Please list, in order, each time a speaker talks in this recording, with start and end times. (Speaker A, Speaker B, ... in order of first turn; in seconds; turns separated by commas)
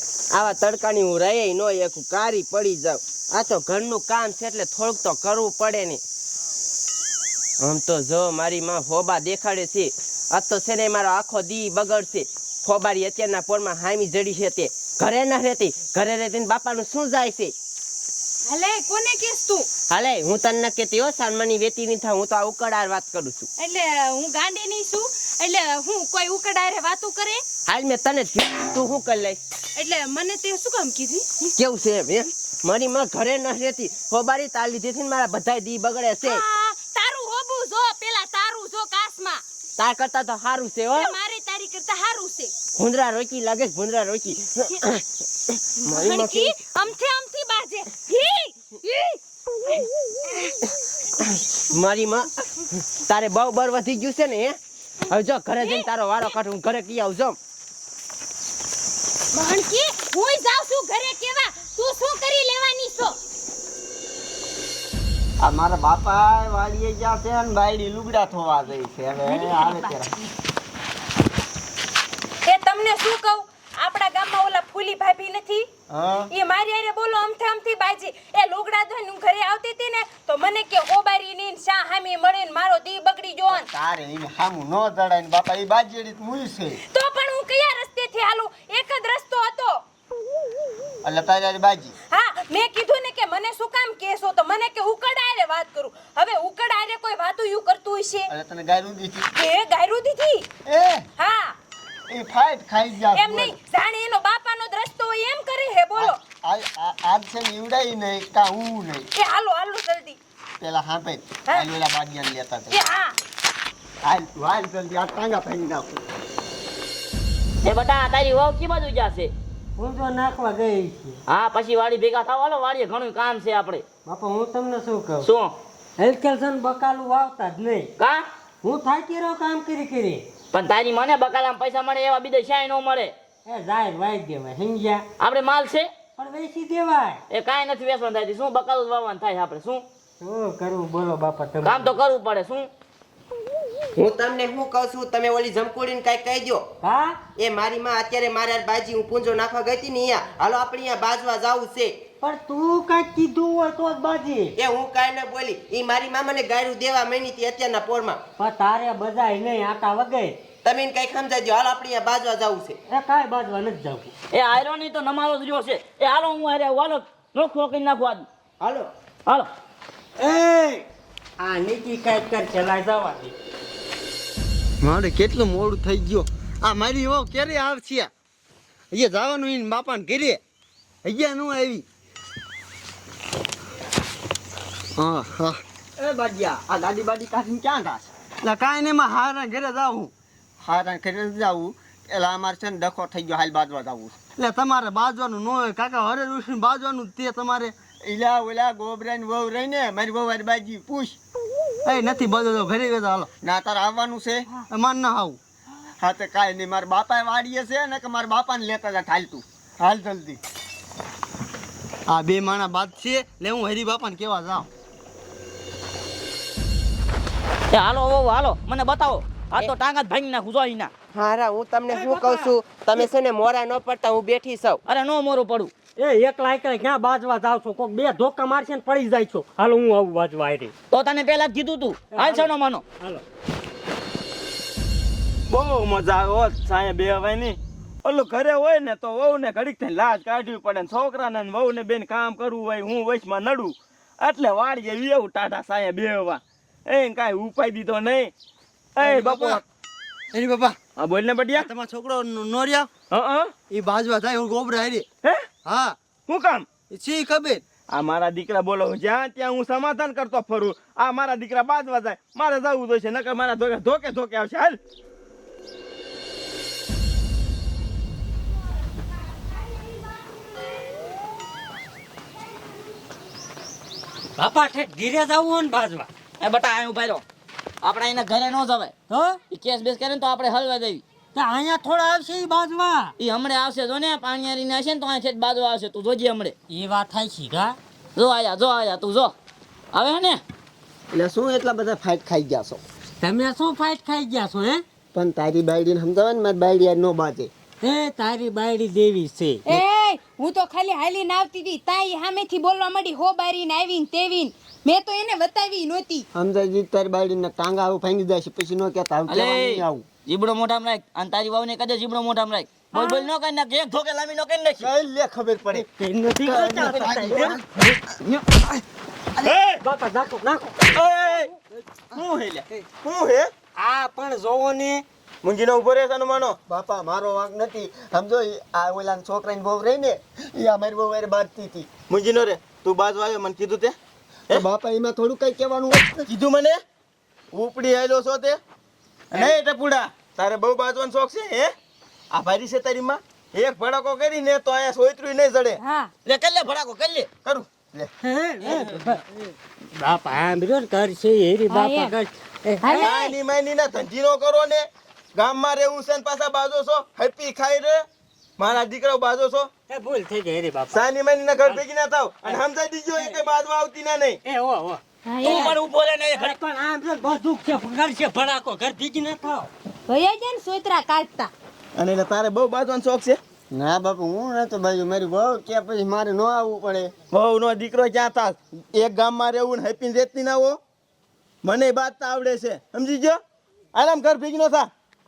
Speaker A: 0.3-6.0, Speaker A: 7.6-17.5, Speaker B: 18.5-19.7, Speaker A: 19.9-23.5, Speaker B: 23.6-27.4, Speaker A: 27.7-29.4, Speaker B: 29.8-31.5, Speaker A: 31.6-36.4, Speaker B: 36.2-39.4, Speaker A: 39.8-41.2, Speaker B: 40.9-42.5, Speaker A: 42.8-45.0, Speaker A: 45.8-46.6, Speaker B: 45.9-50.5, Speaker A: 51.7-57.4, Speaker B: 55.6-55.9, Speaker B: 59.3-63.2, Speaker C: 65.4-70.2, Speaker B: 69.2-70.0, Speaker B: 72.5-75.7, Speaker C: 75.9-76.3, Speaker B: 76.3-83.7, Speaker C: 83.5-86.8, Speaker B: 86.9-89.8, Speaker C: 91.0-92.0, Speaker B: 92.1-98.3, Speaker C: 98.3-99.3, Speaker B: 99.4-100.5, Speaker C: 100.7-101.1, Speaker B: 101.2-101.6, Speaker C: 102.1-103.6, Speaker B: 103.1-106.2, Speaker C: 106.0-109.1, Speaker B: 109.2-110.2, Speaker C: 110.6-112.8, Speaker B: 112.7-113.2, Speaker C: 114.0-116.0, Speaker D: 117.7-119.3, Speaker E: 119.8-121.2, Speaker D: 121.3-123.8, Speaker E: 124.0-125.3, Speaker D: 125.2-125.5, Speaker E: 126.0-127.9, Speaker D: 128.0-128.2, Speaker E: 128.6-130.2, Speaker D: 130.5-133.1, Speaker E: 133.5-135.1, Speaker D: 135.2-135.9, Speaker E: 136.2-137.2, Speaker D: 137.3-139.8, Speaker E: 140.2-142.0, Speaker D: 141.6-142.7, Speaker A: 144.0-146.6, Speaker E: 146.8-147.2, Speaker A: 147.4-151.9, Speaker E: 152.2-154.6, Speaker A: 154.6-158.2, Speaker E: 158.4-160.3, Speaker A: 160.6-162.8, Speaker E: 162.9-164.1, Speaker D: 164.3-168.3, Speaker A: 168.6-168.9, Speaker E: 170.2-170.8, Speaker E: 171.4-173.3, Speaker C: 174.8-178.1, Speaker C: 178.9-180.4, Speaker C: 181.0-181.9, Speaker C: 185.0-201.2, Speaker C: 201.9-205.4, Speaker C: 206.0-210.4, Speaker C: 212.1-214.7, Speaker D: 217.7-220.9, Speaker A: 221.1-224.8, Speaker E: 221.9-222.5, Speaker D: 224.9-225.7, Speaker E: 226.0-230.7, Speaker D: 230.9-232.8, Speaker E: 232.1-233.2, Speaker F: 235.5-248.3, Speaker F: 249.0-249.6, Speaker C: 250.3-250.8, Speaker F: 251.0-251.7, Speaker C: 251.8-252.9, Speaker F: 253.1-253.6, Speaker C: 253.7-255.1, Speaker C: 255.7-255.9, Speaker F: 256.3-256.7, Speaker C: 256.9-257.6, Speaker F: 257.9-264.8, Speaker E: 274.4-276.1, Speaker D: 276.4-277.2, Speaker D: 277.8-278.9, Speaker E: 279.1-279.4, Speaker D: 279.5-281.0, Speaker E: 281.4-283.1, Speaker D: 283.2-286.6, Speaker E: 286.7-287.8, Speaker D: 288.2-289.3, Speaker D: 289.9-290.4, Speaker C: 291.1-292.8, Speaker E: 293.2-294.8, Speaker C: 295.1-297.5, Speaker E: 297.8-299.8, Speaker B: 299.7-306.3, Speaker C: 306.3-310.1, Speaker D: 309.3-314.9, Speaker B: 312.9-313.3, Speaker C: 314.8-315.9, Speaker E: 315.7-317.6, Speaker C: 316.4-317.6, Speaker E: 319.4-321.6, Speaker F: 319.4-319.8, Speaker F: 320.9-321.5, Speaker F: 322.1-323.5, Speaker E: 323.8-325.0, Speaker F: 325.4-326.6, Speaker C: 326.7-331.9, Speaker F: 332.1-333.9, Speaker C: 334.5-336.3, Speaker F: 336.3-336.8, Speaker F: 337.5-338.6, Speaker F: 339.3-341.7, Speaker F: 342.3-345.8, Speaker B: 345.8-346.1, Speaker D: 346.3-347.3, Speaker F: 347.4-348.1, Speaker E: 348.2-349.4, Speaker E: 350.0-353.2, Speaker B: 351.7-352.1, Speaker B: 352.8-353.4, Speaker F: 353.0-358.1, Speaker F: 358.6-359.7, Speaker E: 359.9-361.0, Speaker F: 360.9-364.4, Speaker E: 364.4-365.0, Speaker B: 365.3-365.8, Speaker D: 365.4-366.6, Speaker E: 366.4-369.7, Speaker B: 370.1-371.5, Speaker F: 372.0-373.4, Speaker C: 373.7-377.1, Speaker F: 377.3-380.8, Speaker F: 381.6-383.4, Speaker F: 383.9-384.9